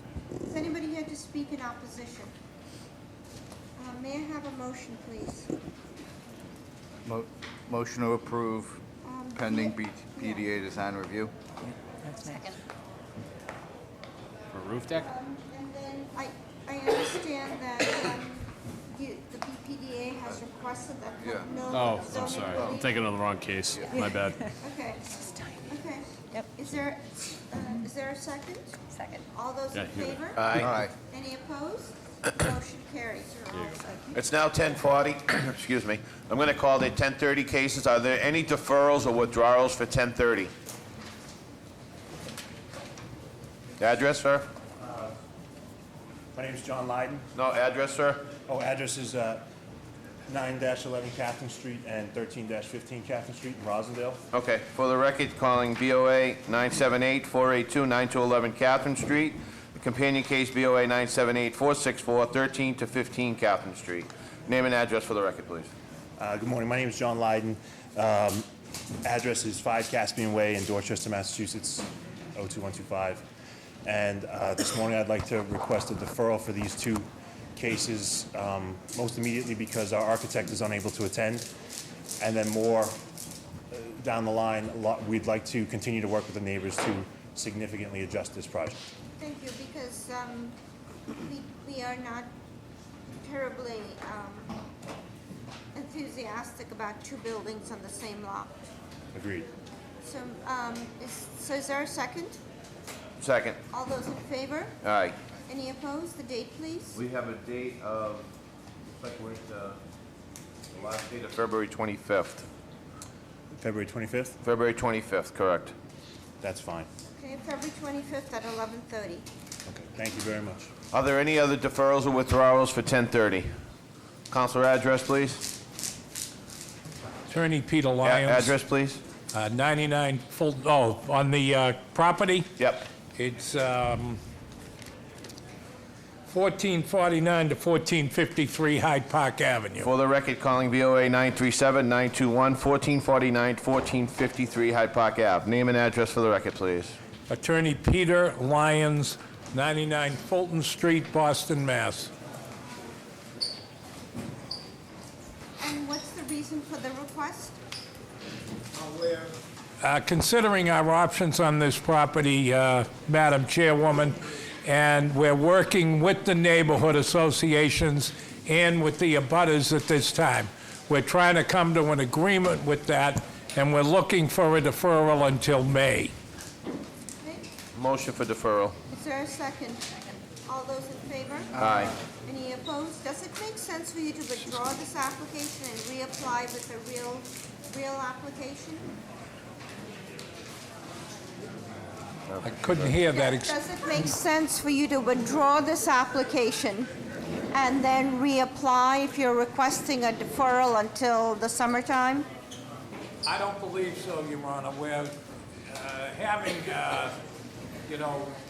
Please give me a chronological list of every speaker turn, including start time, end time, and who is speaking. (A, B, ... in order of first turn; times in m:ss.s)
0:00.4-0:02.3 A
0:03.8-0:05.5 A
0:07.0-0:08.8 B
0:09.0-0:10.5 A
0:09.4-0:11.3 B
0:14.5-0:15.0 C
0:14.9-0:23.0 A
0:21.7-0:24.4 C
0:24.6-0:28.8 A
0:29.3-0:34.1 A
0:29.7-0:30.6 C
0:30.4-0:30.9 B
0:34.1-0:40.5 D
0:43.8-0:44.5 D
0:44.8-0:45.2 E
0:46.3-0:47.3 E
0:47.3-0:48.3 D
0:48.5-0:49.4 E
0:50.3-0:54.2 E
0:54.3-1:05.7 D
1:06.2-1:08.5 E
1:09.0-1:13.2 E
1:13.8-1:21.5 E
1:22.2-1:23.0 E
1:23.7-1:28.8 E
1:29.2-1:30.6 A
1:31.2-1:32.3 A
1:33.2-1:34.5 A
1:35.7-1:38.6 A
1:39.1-1:39.5 E
1:40.0-1:42.4 A
1:43.2-1:43.6 D
1:43.7-1:44.8 A
1:44.8-1:45.2 D
1:45.5-1:47.0 A
1:46.9-1:48.3 D
1:49.0-1:49.8 D
1:50.7-1:52.4 D
1:53.5-1:54.4 E
1:54.4-1:55.7 D
1:56.4-1:56.9 E
1:57.1-1:59.2 A
1:59.6-2:00.7 E
2:00.9-2:03.5 D
2:04.3-2:05.4 D
2:07.3-2:08.6 F
2:08.0-2:09.0 D
2:09.3-2:12.5 F
2:12.6-2:12.9 D
2:13.2-2:14.2 F
2:16.3-2:19.9 F
2:19.8-2:27.0 D
2:27.3-2:32.1 F
2:35.6-2:37.6 A
2:38.7-2:56.1 F
2:57.2-2:57.5 A
2:57.7-2:58.8 D
2:58.9-3:01.5 A
3:01.6-3:01.9 D
3:02.2-3:08.9 A
3:12.3-3:12.9 D
3:12.4-3:13.6 F
3:13.0-3:16.9 A
3:17.5-3:22.3 A
3:23.2-3:25.2 F
3:25.7-3:27.1 F
3:27.9-3:28.4 F